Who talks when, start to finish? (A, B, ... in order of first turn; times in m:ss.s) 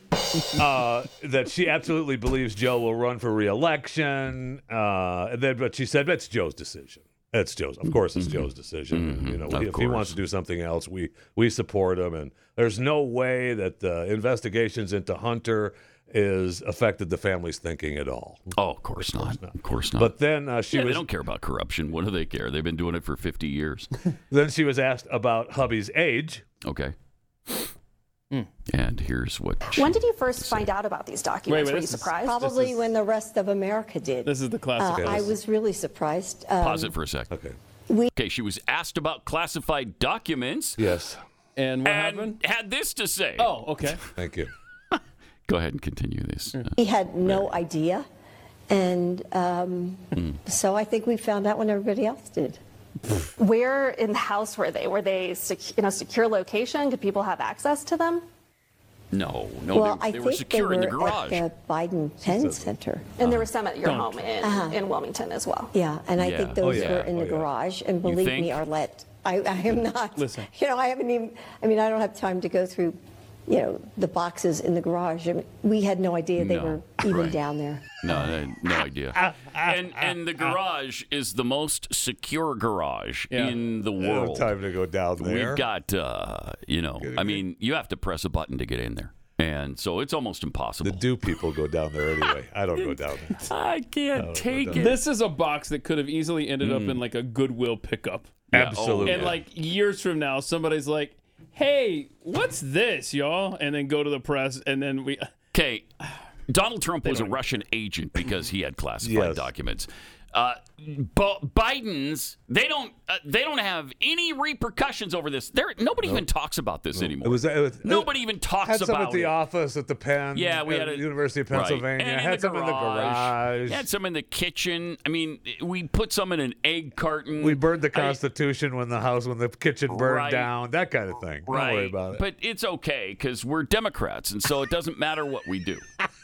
0:00.5-0:21.0 A
0:08.1-0:10.2 B
0:18.5-0:20.1 B
0:20.7-0:23.9 B
0:24.3-0:26.4 A
0:26.6-0:26.9 B
0:28.7-0:30.7 B
0:29.7-0:32.4 C
0:31.5-0:32.8 D
0:32.2-0:36.9 E
0:34.2-0:35.3 D
0:34.9-0:35.3 A
0:36.6-0:37.3 B
0:37.3-0:37.6 A
0:38.1-0:40.8 B
0:40.8-0:41.2 A
0:41.6-0:42.4 D
0:41.8-0:43.9 B
0:43.4-0:44.0 D
0:44.1-0:44.5 A
0:45.5-0:46.7 B
0:46.8-0:48.0 E
0:47.2-0:47.5 B
0:48.7-0:52.6 E
0:53.4-0:58.2 C
0:59.1-1:01.4 B
0:59.7-1:03.1 E
1:02.2-1:02.7 A
1:03.2-1:05.7 C
1:03.8-1:04.3 D
1:04.4-1:04.8 E
1:05.7-1:18.0 E
1:06.2-1:07.1 B
1:06.6-1:07.5 A
1:08.0-1:08.6 B
1:10.2-1:10.5 D
1:16.4-1:17.4 B
1:18.0-1:24.5 B
1:19.2-1:20.5 A
1:23.3-1:23.6 D
1:24.0-1:25.6 A
1:25.2-1:31.1 B
1:27.0-1:27.4 A
1:30.8-1:33.4 A
1:33.4-1:35.0 B
1:34.2-1:34.9 A
1:34.7-1:38.4 D
1:36.6-1:37.0 B
1:38.5-1:39.4 A
1:38.5-1:39.4 B
1:39.0-1:45.3 D
1:45.5-1:45.9 B
1:46.5-1:59.3 B
1:47.0-1:47.4 D
1:49.0-1:49.5 A
1:56.9-2:03.8 A
2:00.3-2:08.2 B
2:07.4-2:12.2 A
2:09.9-2:10.5 B
2:11.5-2:15.8 B